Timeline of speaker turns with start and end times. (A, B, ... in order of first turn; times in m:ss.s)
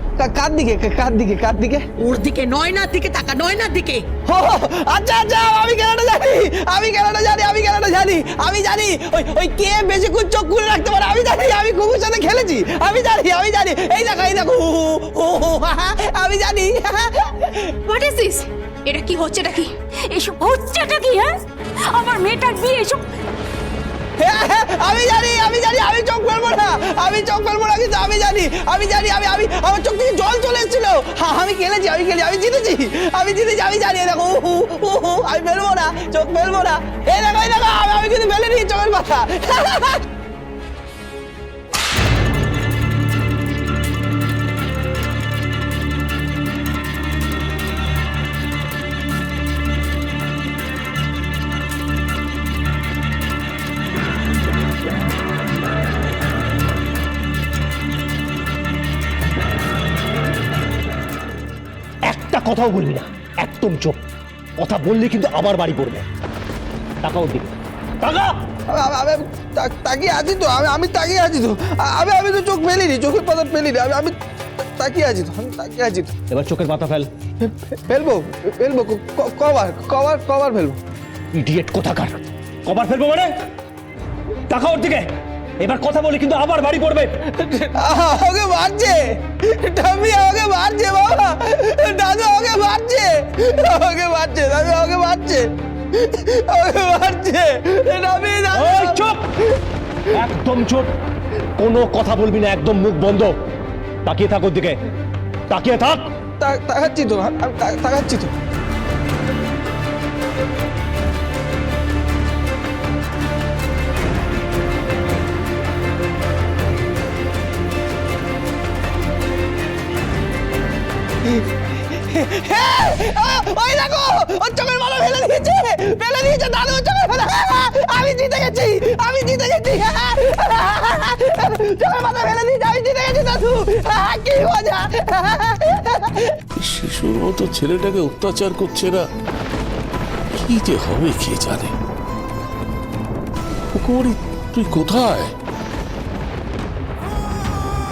0:00.2-0:01.8 A
0:02.0-0:04.0 B
0:04.3-0:17.7 A
0:17.9-0:21.4 C
0:21.9-0:23.0 C
0:24.2-0:40.0 A
1:02.1-1:04.0 D
1:04.6-1:06.0 D
1:07.0-1:08.3 D
1:08.7-1:14.1 A
1:14.8-1:16.1 A
1:16.3-1:17.1 D
1:17.4-1:20.8 A
1:21.4-1:23.3 D
1:24.5-1:25.1 D
1:25.6-1:27.2 D
1:27.8-1:39.1 A
1:38.7-1:39.1 D
1:40.2-1:40.9 D
1:41.6-1:43.4 D
1:44.1-1:44.8 D
1:45.5-1:46.1 D
1:46.4-1:48.3 A
2:01.2-2:16.3 A
2:16.6-2:19.1 E
2:20.3-2:21.8 E
2:23.7-2:25.3 E